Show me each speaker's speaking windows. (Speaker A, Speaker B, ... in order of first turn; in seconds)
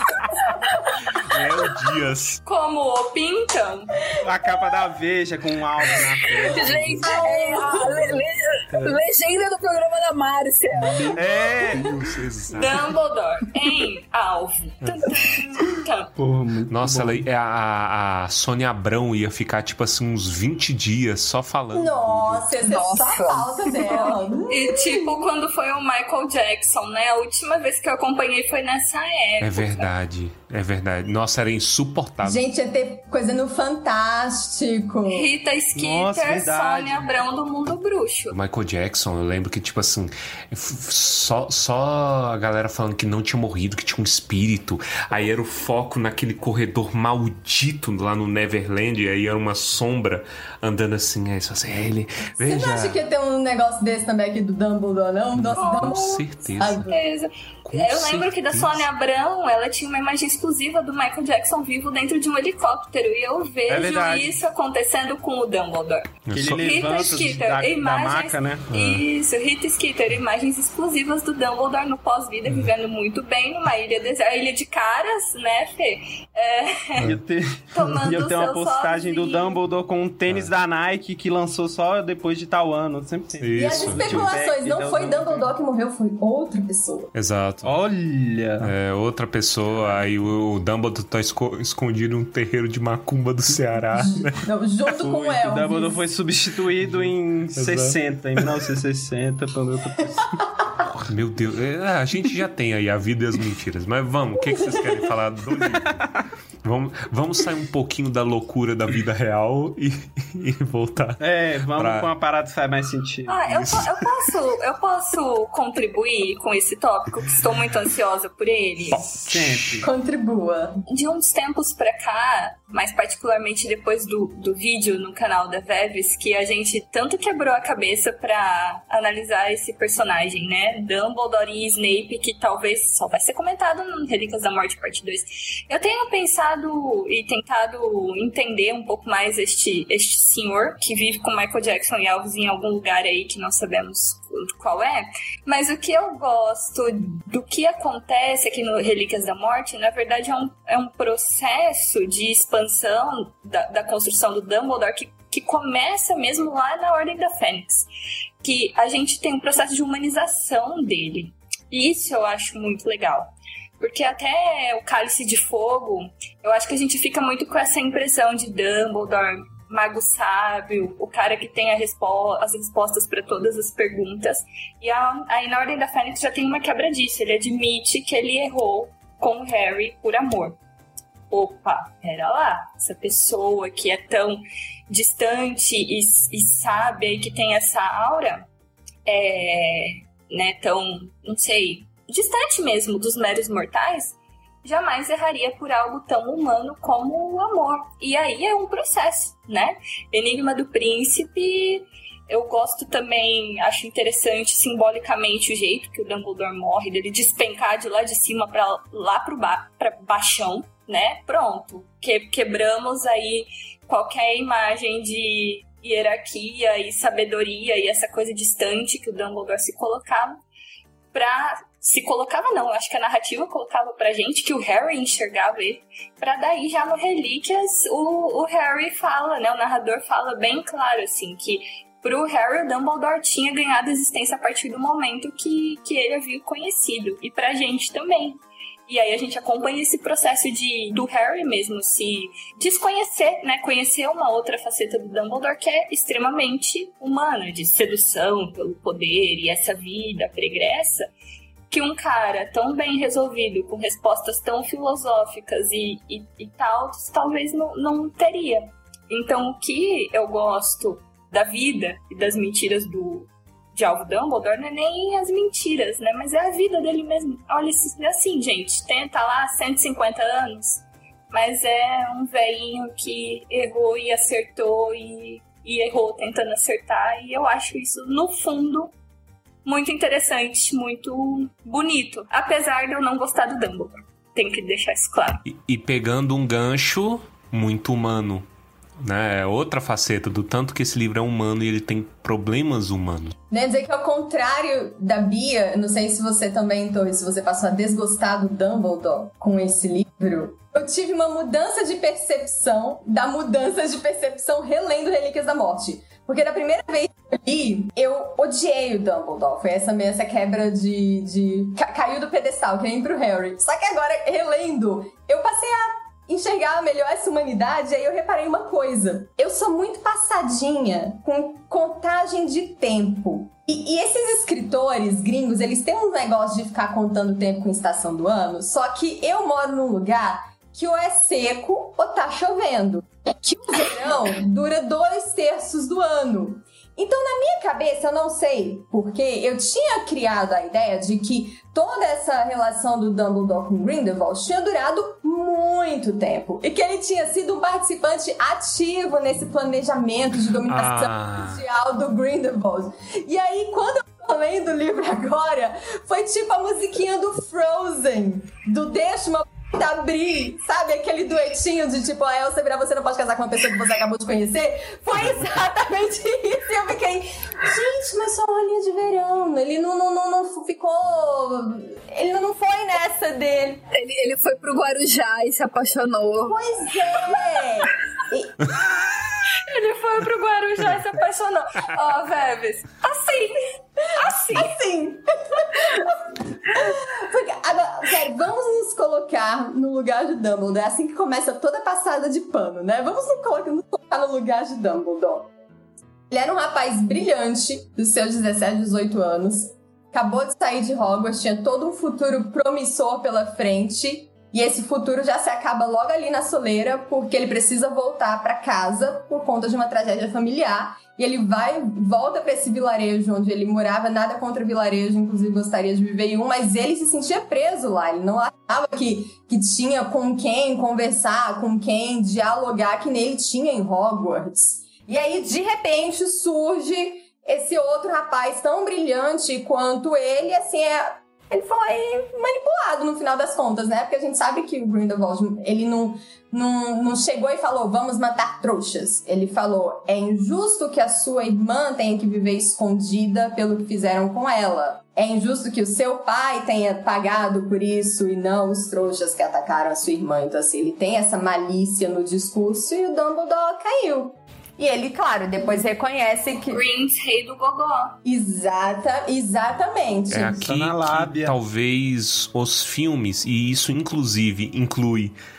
Speaker A: 1.2-2.4, 10.9-13.0, 14.8-15.5, 16.7-22.6, 29.4-32.4, 38.3-53.0, 55.4-56.9, 57.6-58.9, 66.3-66.8, 68.7-69.0, 83.4-84.2, 87.1-87.7, 88.6-94.5, 97.6-98.0, 101.1-106.0, 106.6-111.2, 111.8-112.1, 113.5-114.1, 118.9-119.8, 285.4-288.5, 289.0-293.4, 350.7-351.6, 460.3-465.4
Speaker B: 2.5-3.9, 12.5-16.1, 24.5-29.9, 35.1-38.4, 55.5-77.2, 77.7-79.6, 113.3-119.1, 120.9-157.9, 158.4-180.6, 181.3-188.5, 189.1-220.4, 221.1-251.1, 251.7-278.9, 279.6-285.4, 379.6-384.8, 456.7-458.2
Speaker C: 4.2-7.2, 10.9-12.0, 16.2-17.3, 35.8-37.0, 63.7-64.4, 66.3-68.7, 77.0-85.5, 87.6-88.7, 95.0-100.4, 111.2-113.5, 119.2-119.9, 460.6-461.6
Speaker D: 6.5-11.2, 22.6-24.2, 373.9-376.6
Speaker E: 7.0-7.9, 21.7-25.1, 32.2-35.3, 52.4-56.9, 83.6-87.1, 94.4-96.0, 104.5-105.0, 119.8-120.8, 293.5-373.8, 376.5-378.6, 384.2-395.5, 396.3-456.8, 458.2-460.6